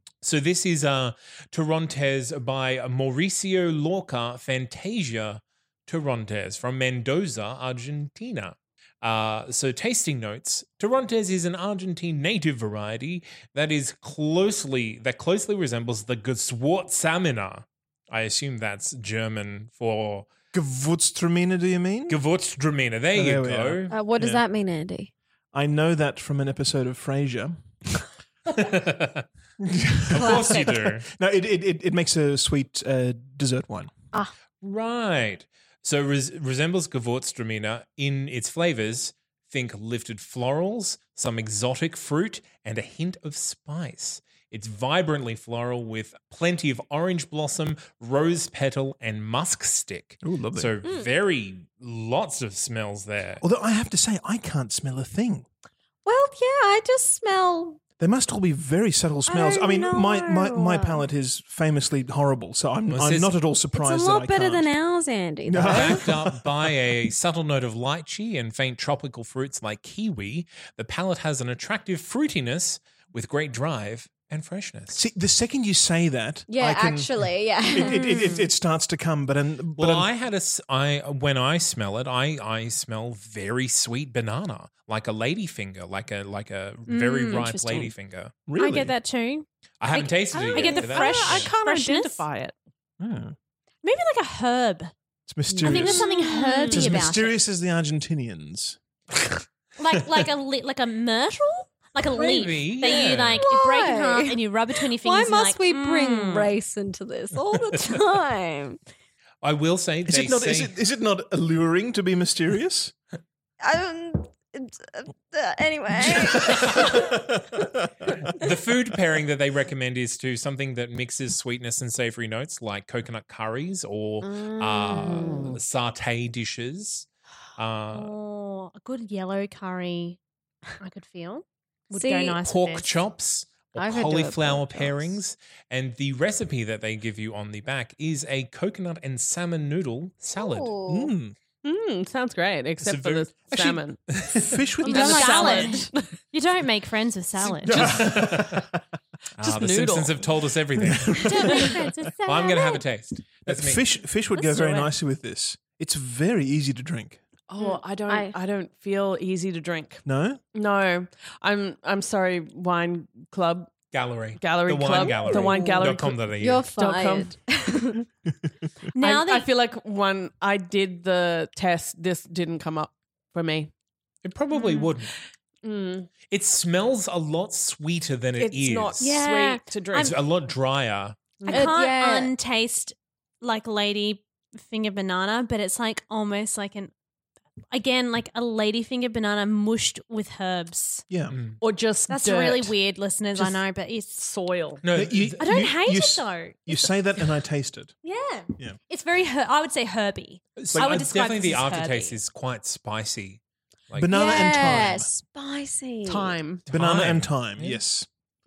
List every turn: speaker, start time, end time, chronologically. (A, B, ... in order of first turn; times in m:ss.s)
0:00.2-0:20.3 A
0:20.5-0:22.2 B
0:22.1-0:24.0 A
0:23.1-0:24.4 B
0:23.9-0:25.1 C
0:25.5-0:28.0 B
0:28.5-0:29.2 A
0:29.6-0:33.9 B
0:30.1-0:31.1 A
0:30.2-0:30.6 C
0:34.6-0:53.4 A
0:50.2-0:50.8 B
0:53.4-0:55.4 B
0:56.0-0:57.8 C
0:58.0-1:04.7 B
0:59.3-1:01.0 C
1:02.9-1:03.3 A
1:03.7-1:06.0 C
1:05.4-1:06.5 B
1:05.6-1:15.0 A
1:14.9-1:20.1 B
1:16.5-1:18.4 C
1:19.8-1:28.3 A
1:26.9-1:27.8 D
1:27.4-1:27.9 C
1:28.5-1:28.9 B
1:28.6-1:32.2 D
1:29.8-1:31.5 A
1:30.4-1:32.5 E
1:33.0-1:33.3 B
1:33.8-1:34.9 D
1:35.3-1:36.0 B
1:35.5-1:36.8 C
1:35.6-1:37.4 D
1:36.7-1:38.8 B
1:39.8-1:46.5 D
1:42.0-1:43.4 A
1:42.8-1:44.4 C
1:45.0-1:48.8 C
1:49.4-1:50.7 A
1:50.0-1:52.9 B
1:53.6-1:57.2 C
1:56.1-1:58.1 B
1:56.3-1:56.8 A
1:58.3-2:08.1 A
2:04.2-2:05.6 C
2:07.9-2:10.2 D
2:10.8-2:12.9 D
2:11.9-2:12.4 C
2:12.4-2:20.7 A
2:13.8-2:15.1 C
2:20.4-2:21.1 C
2:20.9-2:21.4 B
2:21.6-2:24.0 E
2:22.8-2:23.6 A
2:23.6-2:25.6 B
2:24.8-2:27.9 D
2:24.9-2:25.9 C
2:24.9-2:26.0 E
2:27.5-2:28.7 B
2:27.6-2:28.7 A
2:29.4-2:31.6 A
2:29.4-2:30.3 E
2:30.8-2:31.7 B
2:31.2-2:32.8 D
2:32.2-2:33.9 A
2:33.4-2:37.2 B
2:34.4-2:34.9 D
2:37.5-2:43.7 E
2:37.6-2:38.4 C
2:40.0-2:40.4 B
2:43.9-2:46.7 A
2:44.4-2:47.3 E
2:45.4-2:45.8 C
2:46.4-2:48.0 C
2:48.9-2:49.5 D
2:49.0-2:53.7 E
2:54.2-2:55.1 A
2:54.5-2:54.9 D
2:55.6-2:56.1 E
2:56.3-2:59.1 A
2:58.4-3:00.2 E
2:59.0-3:00.2 D
2:59.9-3:01.2 A
3:01.4-3:01.8 E
3:01.4-3:06.9 D
3:01.5-3:02.3 C
3:07.7-3:11.0 D
3:11.1-3:11.4 B
3:11.3-3:11.6 A
3:11.6-3:12.7 E
3:12.1-3:14.2 D
3:14.2-3:14.8 E
3:14.8-3:15.4 A
3:14.9-3:17.9 B
3:15.4-3:16.9 D
3:18.0-3:22.2 D
3:20.6-3:24.9 A
3:20.7-3:21.0 B
3:23.9-3:25.1 B
3:24.1-3:26.4 C
3:26.0-3:26.6 E
3:26.7-3:27.8 A
3:26.7-3:28.1 B